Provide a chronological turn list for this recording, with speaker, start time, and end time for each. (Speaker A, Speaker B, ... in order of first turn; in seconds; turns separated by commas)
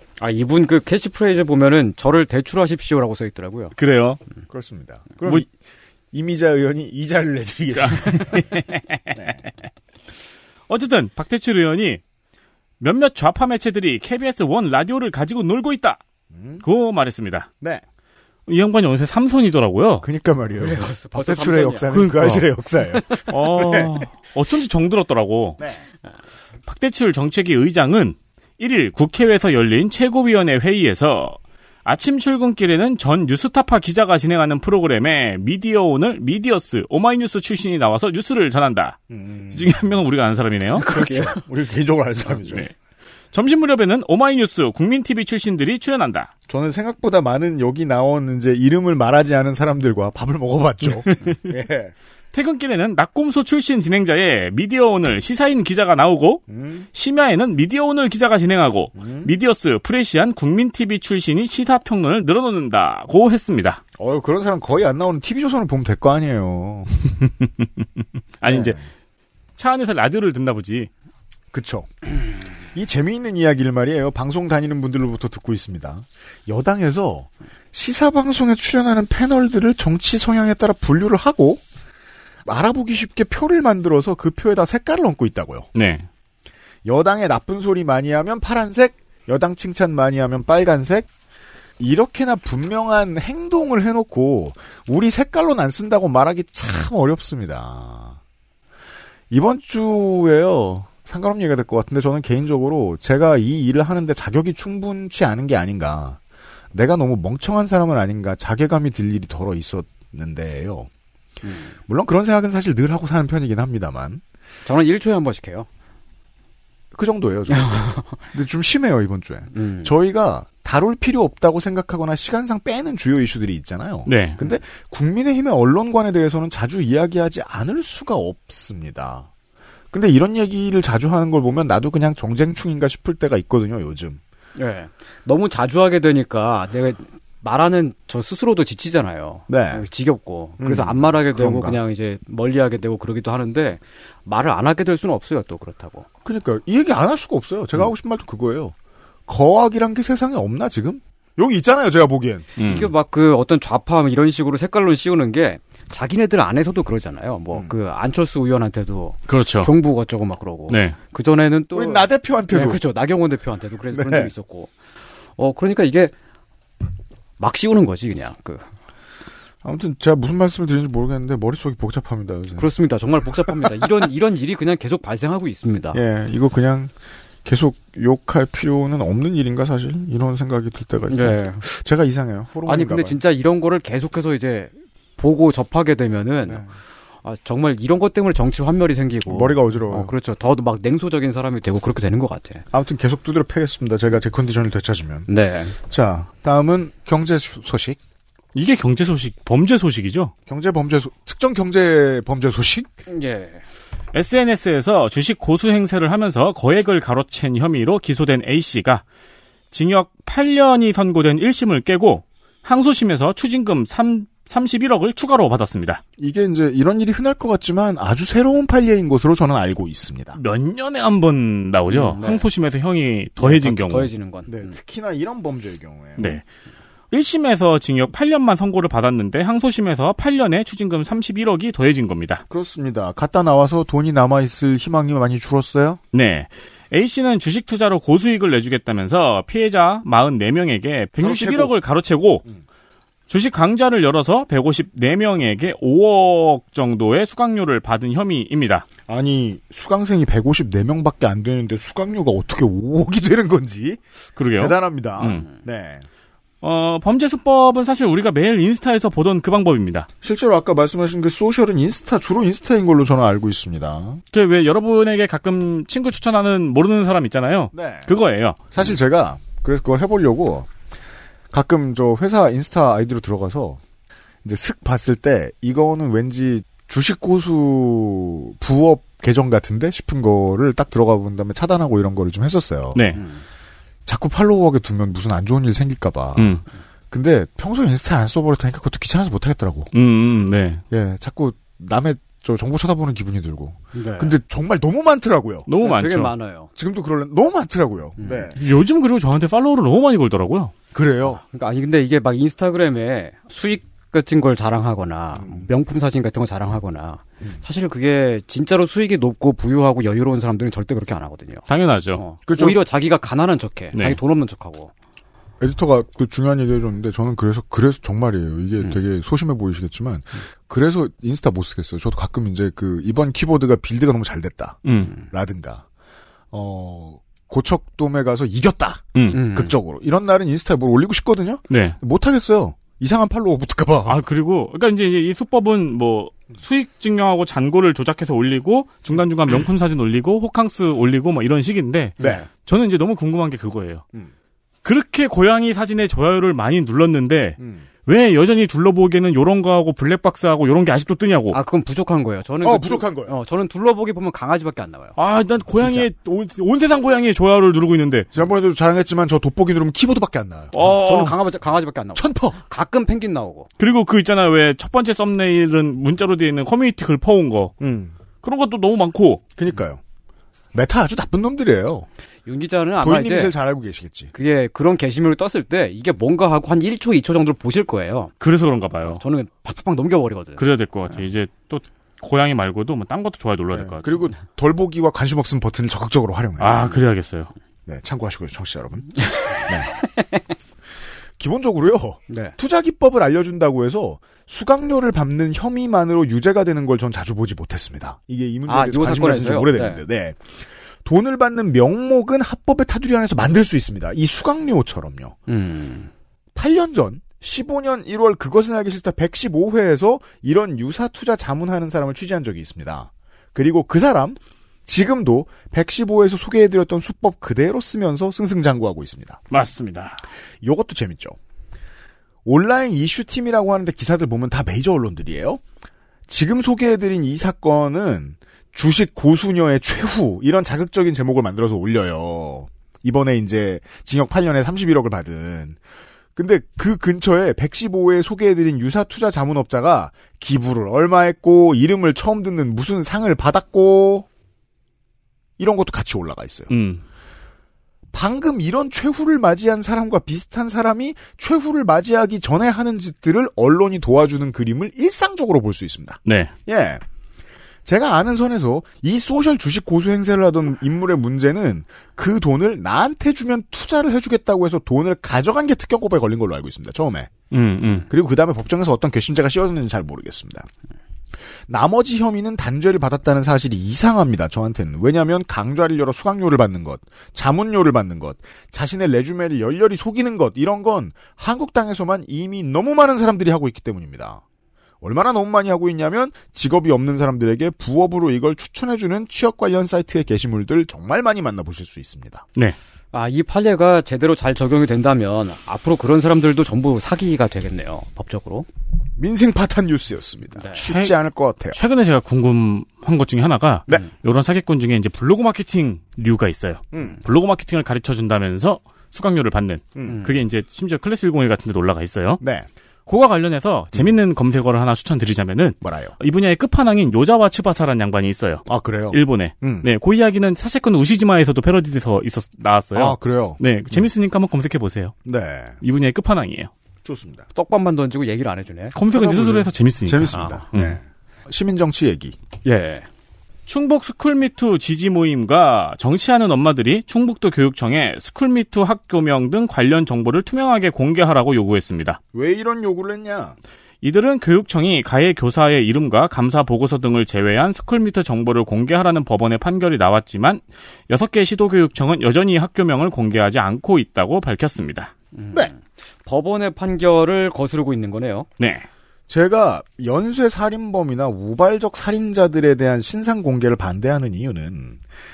Speaker A: 0.2-3.8, Speaker B: 3.8-4.2, Speaker C: 4.5-5.5, Speaker C: 6.1-8.5, Speaker B: 7.7-9.2, Speaker C: 9.1-9.4, Speaker B: 10.7-12.0, Speaker B: 12.8-16.0, Speaker C: 16.3-16.6, Speaker B: 16.6-17.5, Speaker B: 18.5-20.1, Speaker C: 20.0-24.1, Speaker A: 20.6-21.9, Speaker B: 21.9-22.5, Speaker B: 23.3-25.6, Speaker C: 25.6-25.8, Speaker B: 26.7-39.0, Speaker C: 39.1-39.7, Speaker B: 39.5-40.9, Speaker A: 40.8-41.4, Speaker C: 40.8-42.7, Speaker B: 42.4-42.7, Speaker B: 43.3-46.3, Speaker C: 46.5-51.9, Speaker B: 52.3-63.8, Speaker C: 56.5-56.9, Speaker C: 59.0-59.3, Speaker C: 64.0-66.9, Speaker B: 68.4-68.8, Speaker C: 68.5-68.8, Speaker B: 69.6-70.9, Speaker C: 71.5-72.2, Speaker C: 72.7-81.6, Speaker C: 82.5-85.7, Speaker B: 85.8-86.1, Speaker C: 86.8-91.1, Speaker C: 91.8-98.2, Speaker C: 99.3-106.2, Speaker C: 106.7-110.9, Speaker A: 111.4-111.7, Speaker C: 111.9-114.2, Speaker A: 114.7-115.7, Speaker C: 116.9-129.3, Speaker A: 117.5-118.2, Speaker A: 119.5-119.9, Speaker B: 124.1-124.4, Speaker C: 129.9-134.2, Speaker A: 134.6-146.1, Speaker C: 139.5-139.8, Speaker C: 140.6-141.8, Speaker C: 146.2-148.8, Speaker C: 149.3-152.5, Speaker B: 152.6-152.9, Speaker A: 152.6-164.7, Speaker B: 159.3-159.7, Speaker B: 160.7-161.0, Speaker C: 161.7-162.8, Speaker C: 163.9-164.3, Speaker A: 165.4-166.1, Speaker A: 167.4-168.7, Speaker C: 169.6-172.7, Speaker A: 172.6-176.0, Speaker C: 175.9-176.9, Speaker C: 177.4-183.2, Speaker A: 181.1-181.6, Speaker A: 182.7-186.7, Speaker C: 186.5-186.7, Speaker A: 187.2-192.7, Speaker C: 189.3-190.1, Speaker C: 192.7-198.0, Speaker A: 195.3-195.8, Speaker B: 198.6-200.3, Speaker C: 200.5-202.9, Speaker A: 203.1-203.6, Speaker B: 204.1-209.0, Speaker B: 209.7-216.0, Speaker C: 216.2-220.4, Speaker B: 220.3-224.1, Speaker A: 221.9-222.5, Speaker A: 223.4-224.8, Speaker C: 224.5-226.4, Speaker B: 226.2-226.4, Speaker B: 227.1-232.4, Speaker C: 232.5-236.0, Speaker B: 236.1-242.4, Speaker C: 241.2-241.7, Speaker B: 243.3-248.9, Speaker C: 249.1-254.0, Speaker B: 254.4-255.4, Speaker C: 254.6-256.1, Speaker B: 256.6-260.1, Speaker C: 260.2-264.2, Speaker B: 264.3-268.6, Speaker C: 267.7-268.1, Speaker C: 268.7-270.7, Speaker C: 271.5-273.8, Speaker C: 274.4-283.1, Speaker B: 282.9-283.2, Speaker C: 284.1-289.9, Speaker B: 286.4-286.6, Speaker B: 289.9-290.8, Speaker C: 290.9-295.7, Speaker A: 293.9-294.4, Speaker B: 295.7-296.3, Speaker A: 295.8-296.7, Speaker C: 296.8-298.6, Speaker A: 298.2-298.4, Speaker B: 298.6-300.7, Speaker C: 300.9-301.4, Speaker A: 301.3-314.9, Speaker C: 305.3-305.7, Speaker B: 311.7-312.2, Speaker C: 312.5-312.8, Speaker B: 313.9-314.2, Speaker C: 315.6-325.9, Speaker B: 324.9-325.1, Speaker C: 326.5-334.2, Speaker B: 329.1-329.4, Speaker A: 329.3-329.7, Speaker B: 331.7-332.0, Speaker B: 334.1-344.1, Speaker B: 344.8-351.6, Speaker C: 347.6-347.9, Speaker A: 351.5-355.1, Speaker C: 352.6-353.4, Speaker B: 355.2-358.3, Speaker C: 358.3-360.7, Speaker B: 360.7-361.4, Speaker A: 360.8-363.7, Speaker C: 362.1-362.6, Speaker B: 363.8-367.8, Speaker C: 367.8-368.1, Speaker B: 368.4-369.4, Speaker C: 369.6-370.0, Speaker C: 370.7-372.1, Speaker A: 372.5-373.6, Speaker C: 373.0-374.3, Speaker A: 374.3-378.3, Speaker B: 378.4-379.2, Speaker A: 379.2-380.6, Speaker B: 380.6-384.2, Speaker C: 383.7-387.0, Speaker B: 386.6-387.5, Speaker C: 387.9-389.9, Speaker A: 389.3-390.3, Speaker C: 391.4-405.4, Speaker A: 392.3-392.6, Speaker A: 398.7-400.0, Speaker A: 405.5-406.1, Speaker C: 406.6-419.4, Speaker B: 419.5-420.2, Speaker C: 420.6-421.4, Speaker C: 422.5-425.6, Speaker C: 426.3-435.8, Speaker C: 436.4-444.3, Speaker C: 445.6-446.7, Speaker B: 446.7-447.0, Speaker C: 448.1-457.0, Speaker B: 456.3-456.5, Speaker C: 457.9-467.3, Speaker B: 467.5-468.1, Speaker C: 468.1-470.7, Speaker C: 471.7-484.4, Speaker C: 485.0-492.5, Speaker A: 493.1-498.7, Speaker C: 499.2-501.8, Speaker B: 500.8-501.1, Speaker B: 501.7-512.4, Speaker C: 506.9-507.2, Speaker A: 510.1-510.3, Speaker C: 512.4-512.7, Speaker B: 513.1-525.1, Speaker C: 515.8-516.1, Speaker C: 518.7-519.9, Speaker C: 522.9-523.6, Speaker C: 525.3-525.8, Speaker B: 525.8-526.7, Speaker C: 527.0-527.5, Speaker A: 527.5-529.0, Speaker B: 528.9-531.0, Speaker C: 529.1-532.4, Speaker A: 532.6-533.1, Speaker B: 533.7-542.2, Speaker C: 542.3-543.6, Speaker B: 544.0-555.1, Speaker A: 555.3-558.5, Speaker B: 558.6-558.9, Speaker C: 559.3-565.0